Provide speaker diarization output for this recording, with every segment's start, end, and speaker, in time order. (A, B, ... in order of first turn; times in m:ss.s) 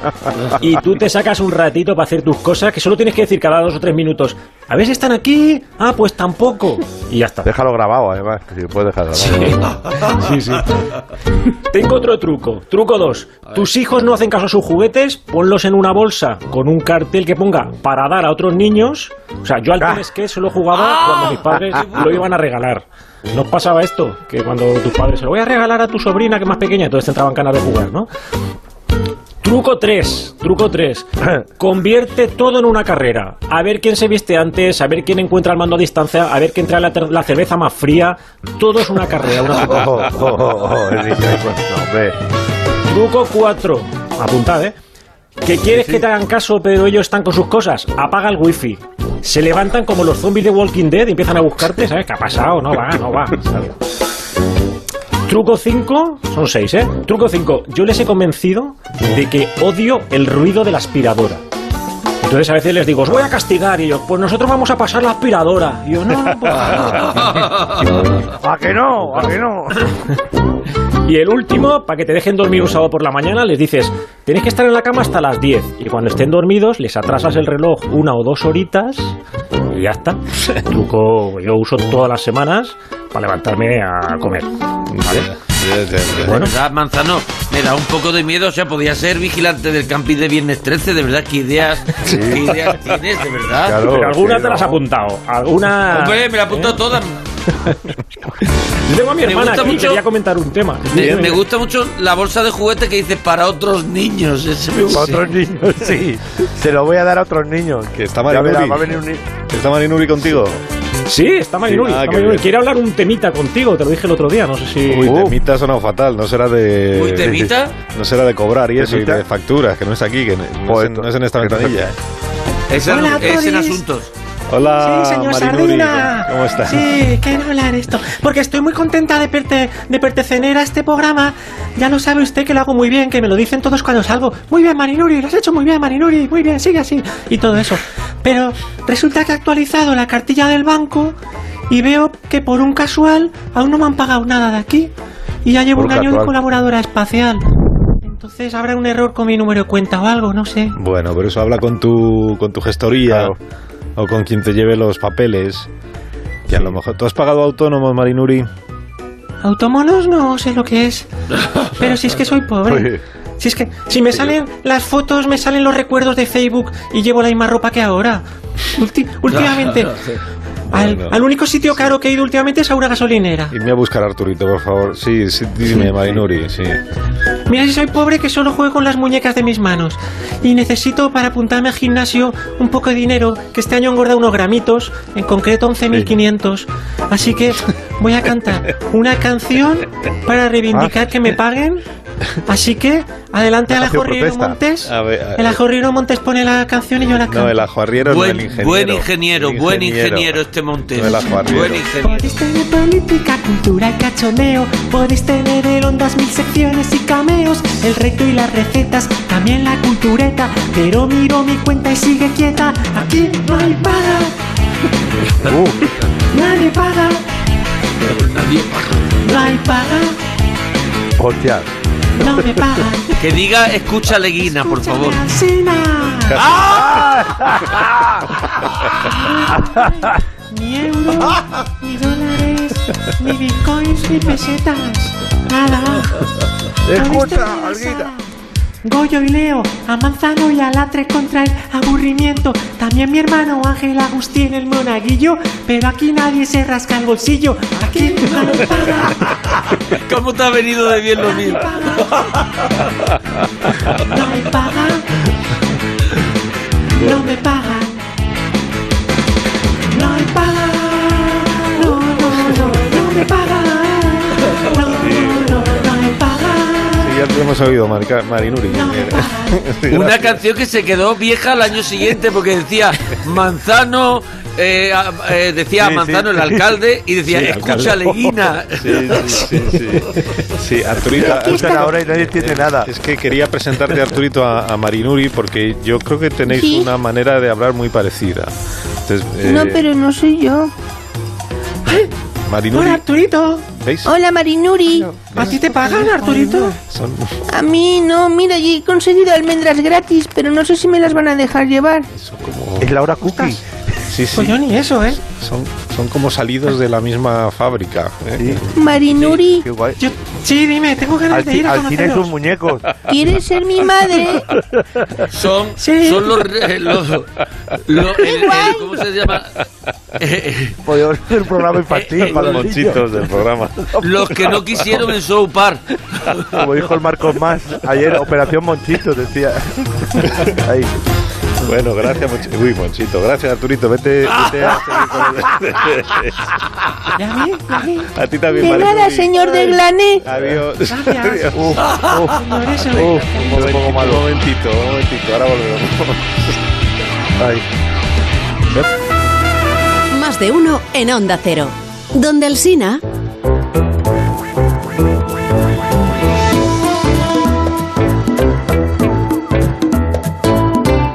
0:00.6-0:07.5 A
0:07.4-0:09.6 B
0:09.2-0:10.8 A
0:09.6-0:10.0 C
0:11.7-0:28.1 A
0:20.7-0:22.3 C
0:29.4-0:40.1 A
0:39.6-0:42.1 B
0:42.9-0:44.8 A
0:45.4-0:53.8 A
0:45.6-0:46.0 B
0:55.2-1:01.4 A
1:02.2-1:07.4 A
1:07.0-1:07.9 C
1:08.4-1:09.9 B
1:11.0-1:19.2 A
1:19.7-1:25.3 A
1:24.9-1:26.5 D
1:26.2-1:33.8 C
1:26.2-1:26.5 A
1:32.0-1:32.4 B
1:33.6-1:34.8 B
1:33.8-1:36.8 A
1:35.9-1:37.2 C
1:38.8-1:41.4 A
1:39.2-1:40.0 C
1:40.9-1:45.2 C
1:41.0-1:41.2 D
1:44.9-1:49.2 B
1:47.9-1:50.6 D
1:51.0-1:55.1 A
1:51.6-1:52.5 D
1:54.9-2:02.0 D
1:55.0-1:55.4 B
1:56.9-1:57.7 C
1:57.2-1:57.5 B
1:58.8-1:59.2 B
2:00.6-2:01.8 B
2:02.7-2:04.1 C
2:02.8-2:03.8 E
2:04.5-2:07.0 D
2:04.8-2:21.2 E
2:21.7-2:24.9 E
2:25.4-2:27.5 E
2:25.7-2:26.3 B
2:28.0-2:30.8 E
2:30.7-2:33.4 D
2:33.1-2:33.4 B
2:34.0-2:35.7 D
2:36.5-2:36.7 B
2:36.5-2:38.5 D
2:39.4-2:41.1 E
2:41.8-2:50.0 E
2:42.6-2:43.0 B
2:49.3-2:50.2 C
2:50.7-2:51.2 D
2:50.7-2:53.6 E
2:53.5-2:56.8 D
2:57.5-3:11.8 E
3:12.5-3:17.6 E
3:13.7-3:14.6 B
3:14.8-3:15.6 D
3:17.2-3:21.9 D
3:18.0-3:22.4 C
3:22.0-3:34.3 E
3:35.4-3:35.9 B
3:36.3-3:37.2 E
3:38.0-3:39.1 C
3:39.2-3:40.2 E
3:41.2-3:41.7 B
3:42.2-3:43.2 E
3:43.2-3:45.2 C
3:44.4-3:46.4 E
3:46.4-3:47.0 C
3:46.7-3:48.3 B
3:49.1-3:56.3 E
3:56.8-3:58.1 B
3:56.9-3:58.3 E
3:58.8-4:09.3 E
4:09.9-4:12.3 C
4:11.2-4:12.3 E
4:13.9-4:15.1 E
4:16.9-4:18.0 E
4:17.0-4:17.2 D
4:19.9-4:27.1 E
4:24.9-4:25.7 D
4:27.0-4:30.4 D
4:28.7-4:29.7 E
4:29.9-4:39.5 C
4:35.8-4:36.6 B
4:37.3-4:38.2 A
4:38.8-4:48.5 D
4:41.2-4:41.9 F
4:41.2-4:42.9 B
4:46.5-4:46.9 F
4:49.0-4:49.8 D
4:49.4-4:50.7 F
4:51.8-4:52.1 E
4:52.4-4:53.0 D
4:52.7-4:53.7 E
4:53.7-4:54.1 D
4:54.0-4:55.1 F
4:55.3-4:56.8 E
4:55.3-4:55.6 D
4:56.8-4:57.4 D
4:57.5-5:02.1 F
5:02.1-5:03.4 D
5:02.8-5:03.6 B
5:03.2-5:03.6 E
5:04.1-5:08.7 D
5:04.3-5:05.2 E
5:08.4-5:08.7 B
5:08.7-5:09.6 F
5:09.4-5:10.0 B
5:10.0-5:12.3 E
5:11.3-5:13.0 B
5:13.1-5:14.4 F
5:15.3-5:17.3 C
5:15.8-5:16.4 E
5:17.8-5:19.6 C
5:18.2-5:18.6 F
5:20.2-5:20.8 C
5:20.8-5:23.4 B
5:21.9-5:22.6 C
5:22.3-5:25.0 D
5:24.0-5:26.4 C
5:26.5-5:31.0 B
5:31.6-5:36.6 D
5:37.2-5:38.1 E
5:38.0-5:39.6 D
5:38.5-5:40.2 F
5:40.2-5:41.8 D
5:40.9-5:41.5 E
5:41.5-5:44.2 B
5:42.3-5:43.5 E
5:42.9-5:46.4 D
5:47.4-5:47.6 B
5:50.1-5:53.0 G